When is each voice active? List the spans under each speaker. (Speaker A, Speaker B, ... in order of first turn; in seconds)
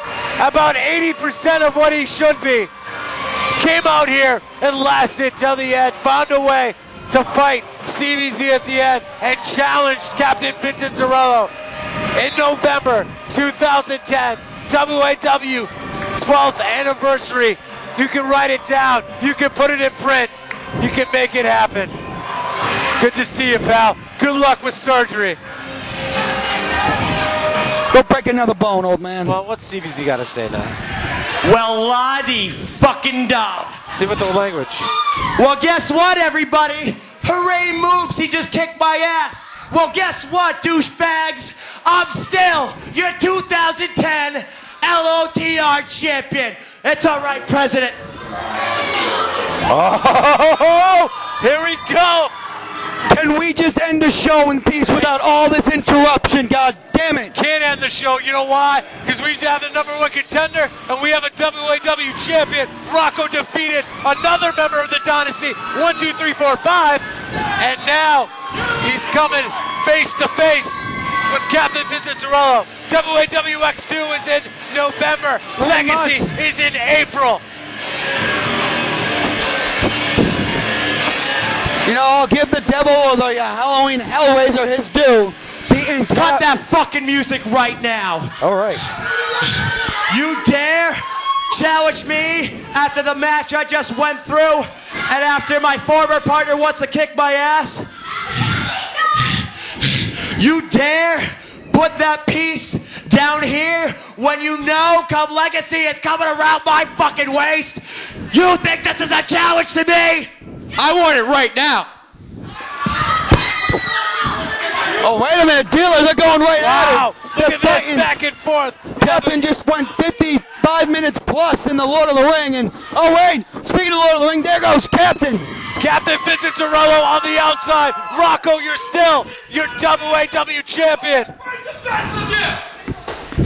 Speaker A: 0.4-2.7, 3.5-11.5, 12.1-22.0, 23.0-25.4, 29.2-30.8, 33.9-34.9, 49.7-52.3, 57.3-67.0, 67.6-77.4, 116.6-119.4, 125.8-131.3
Speaker B: 27.9-29.4, 53.1-57.4, 75.6-76.4, 81.8-86.5, 88.4-88.8, 110.8-111.9, 115.0-118.1, 119.0-125.7
Speaker C: 31.4-33.8, 35.4-48.0, 86.1-88.4, 90.1-97.9, 100.3-110.3